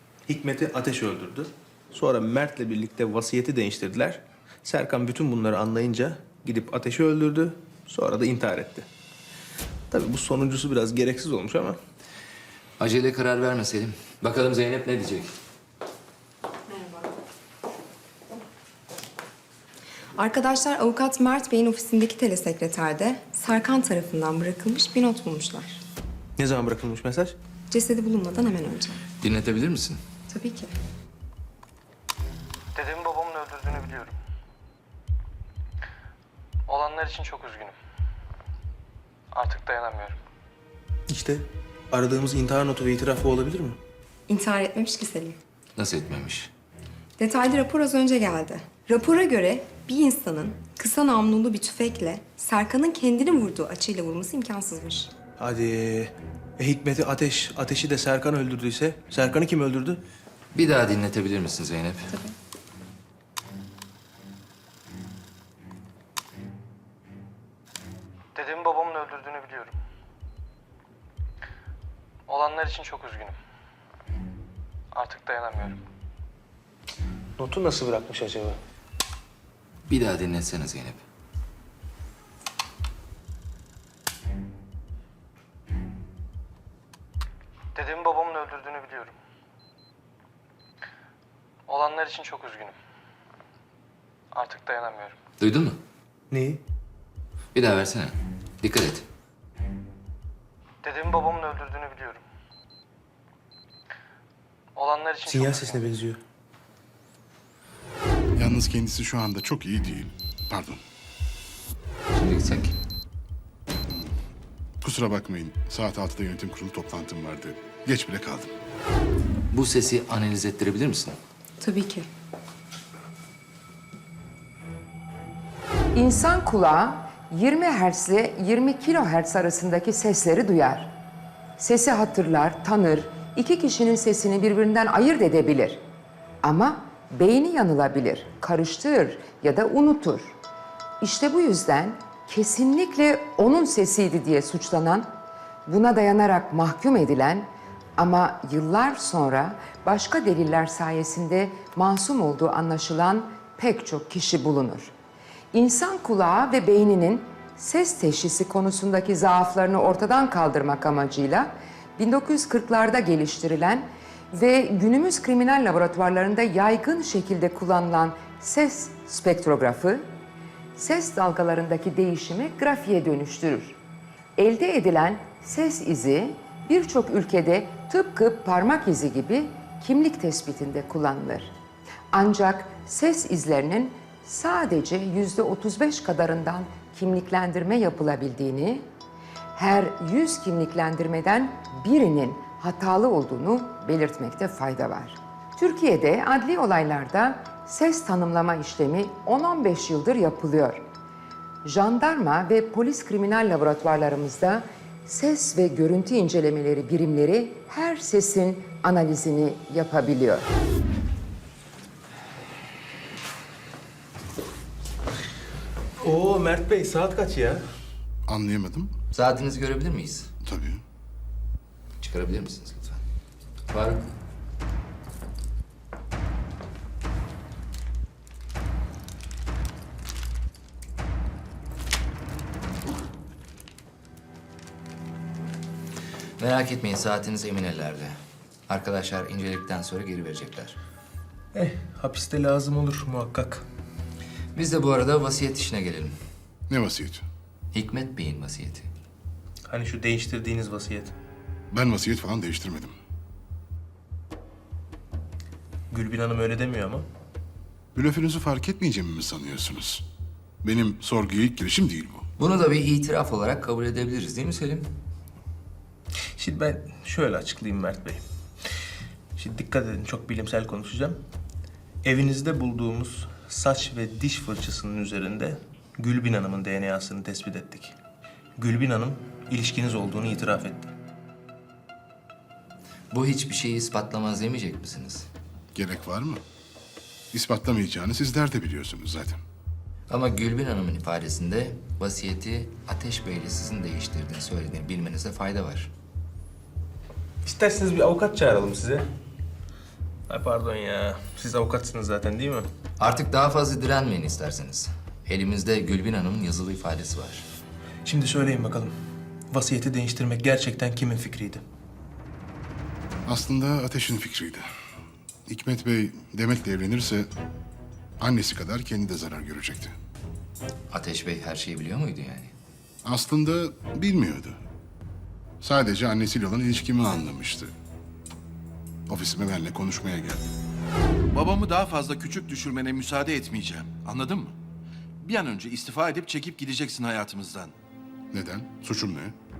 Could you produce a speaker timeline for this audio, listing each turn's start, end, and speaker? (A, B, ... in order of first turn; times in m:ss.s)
0:00.3-0:08.9 A
0:09.9-0:11.8 A
0:12.8-0:15.3 B
0:16.7-0:17.1 C
0:20.2-0:25.8 C
0:26.4-0:27.4 A
0:27.7-0:29.0 C
0:29.2-0:30.0 B
0:30.3-0:30.7 C
0:32.8-0:34.2 D
0:36.7-0:37.8 D
0:39.3-0:40.2 D
0:41.1-0:43.8 A
0:44.3-0:45.4 C
0:45.8-0:46.5 B
0:47.2-0:55.1 C
0:55.4-1:00.0 A
1:00.5-1:02.1 B
1:08.3-1:09.8 D
1:12.3-1:13.4 D
1:14.9-1:15.8 D
1:17.4-1:18.6 A
1:19.9-1:21.0 B
1:27.8-1:29.1 D
1:31.7-1:32.8 D
1:34.3-1:35.2 D
1:35.4-1:35.8 B
1:36.3-1:36.6 A
1:37.5-1:39.1 B
1:40.8-1:42.2 D
1:44.8-1:45.9 D
1:45.2-1:46.2 A
1:48.4-1:50.8 E
1:52.1-1:52.8 B
1:54.8-1:58.5 E
1:59.5-2:01.2 B
2:01.6-2:02.1 C
2:05.9-2:10.9 F
2:11.6-2:15.8 F
2:16.4-2:20.3 F
2:21.0-2:25.1 F
2:25.7-2:34.9 F
2:35.5-2:50.0 F
2:50.8-2:53.8 F
2:54.4-3:01.5 F
3:02.1-3:08.8 F
3:09.5-3:20.8 F
3:21.6-3:30.5 F
3:36.0-3:37.6 A
3:38.3-3:38.9 E
3:39.1-3:40.3 B
3:40.4-3:40.8 E
3:42.0-3:43.0 B
3:43.7-3:44.1 B
3:56.4-3:58.2 B
3:58.7-4:00.8 B
4:01.5-4:03.7 A
4:04.5-4:06.2 B
4:06.7-4:07.2 E
4:07.7-4:08.9 B
4:09.7-4:11.1 A
4:11.7-4:12.9 E
4:15.9-4:17.0 A
4:17.9-4:20.0 E
4:20.6-4:22.3 E
4:22.4-4:24.9 B
4:26.4-4:28.2 A
4:29.4-4:31.2 A
4:32.0-4:38.0 A
4:38.6-4:40.9 A
4:43.1-4:45.3 B
4:45.7-4:46.4 E
4:47.3-4:49.4 E
4:50.1-4:55.9 B
4:57.4-4:59.1 A
5:00.3-5:02.7 A
5:03.0-5:07.5 B
5:08.0-5:08.9 A
5:09.5-5:11.6 A
5:13.2-5:14.7 E
5:15.5-5:17.3 E
5:18.2-5:19.9 E
5:20.9-5:22.5 B
5:23.0-5:24.6 E
5:25.6-5:27.7 E
5:29.1-5:30.5 E
5:31.3-5:34.5 G
5:35.2-5:37.7 G
5:38.3-5:39.3 E